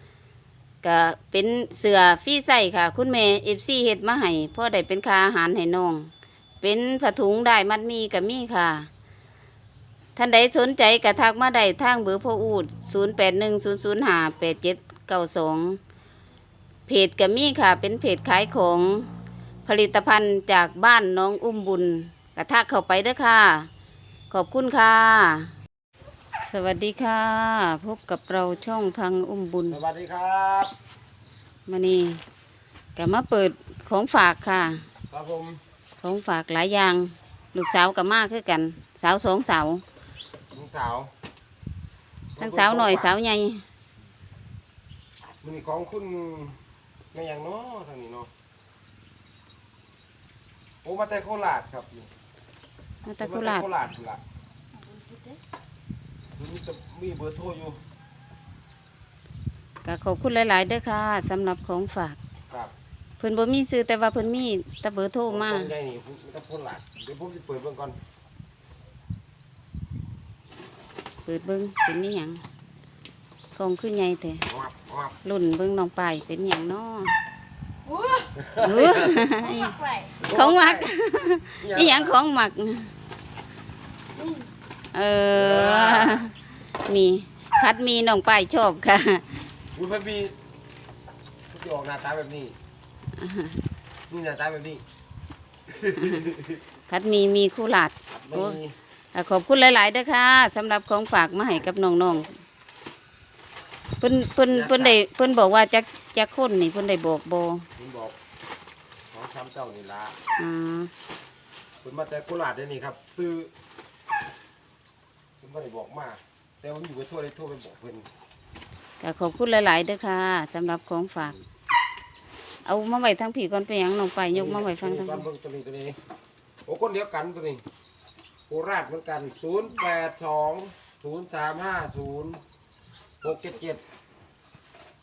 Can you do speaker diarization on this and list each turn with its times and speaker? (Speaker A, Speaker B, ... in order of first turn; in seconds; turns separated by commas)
Speaker A: 0.8-6.1, Speaker A: 6.6-8.9, Speaker A: 10.2-15.8, Speaker A: 16.9-19.1, Speaker A: 19.6-23.7, Speaker A: 24.3-25.5, Speaker A: 26.5-29.8, Speaker B: 29.7-30.7, Speaker A: 31.7-32.2, Speaker A: 33.0-34.8, Speaker B: 35.1-35.6, Speaker A: 36.0-39.8, Speaker B: 40.5-41.1, Speaker B: 42.4-43.1, Speaker A: 42.4-43.6, Speaker B: 45.4-46.6, Speaker B: 47.1-48.3, Speaker B: 50.8-52.1, Speaker A: 53.0-53.7, Speaker B: 53.2-54.2, Speaker C: 54.7-55.4, Speaker B: 56.4-57.8, Speaker A: 59.8-62.2, Speaker A: 63.2-65.7, Speaker B: 65.3-68.0, Speaker A: 71.2-72.4, Speaker A: 73.5-74.4, Speaker B: 74.5-75.2, Speaker A: 75.2-77.2, Speaker C: 77.8-78.3, Speaker B: 78.4-79.2, Speaker A: 78.6-82.9, Speaker C: 79.3-80.1, Speaker B: 80.2-80.9, Speaker B: 81.6-82.2, Speaker C: 84.2-84.5, Speaker A: 84.9-86.3, Speaker B: 85.3-86.3, Speaker A: 86.8-89.4, Speaker B: 89.7-90.3, Speaker B: 91.5-92.5, Speaker A: 93.2-93.5, Speaker B: 94.1-94.8, Speaker B: 95.7-96.6, Speaker A: 96.0-96.3, Speaker A: 96.9-98.6, Speaker B: 98.1-98.8, Speaker A: 99.1-102.3, Speaker A: 104.0-107.7, Speaker B: 104.5-105.0, Speaker B: 107.8-108.2, Speaker B: 109.1-110.1, Speaker A: 110.4-110.9, Speaker B: 111.8-113.5, Speaker B: 115.4-118.1, Speaker A: 119.0-121.4, Speaker A: 122.7-125.2, Speaker B: 124.3-126.0, Speaker B: 126.7-127.6, Speaker B: 128.5-132.4, Speaker B: 133.2-133.8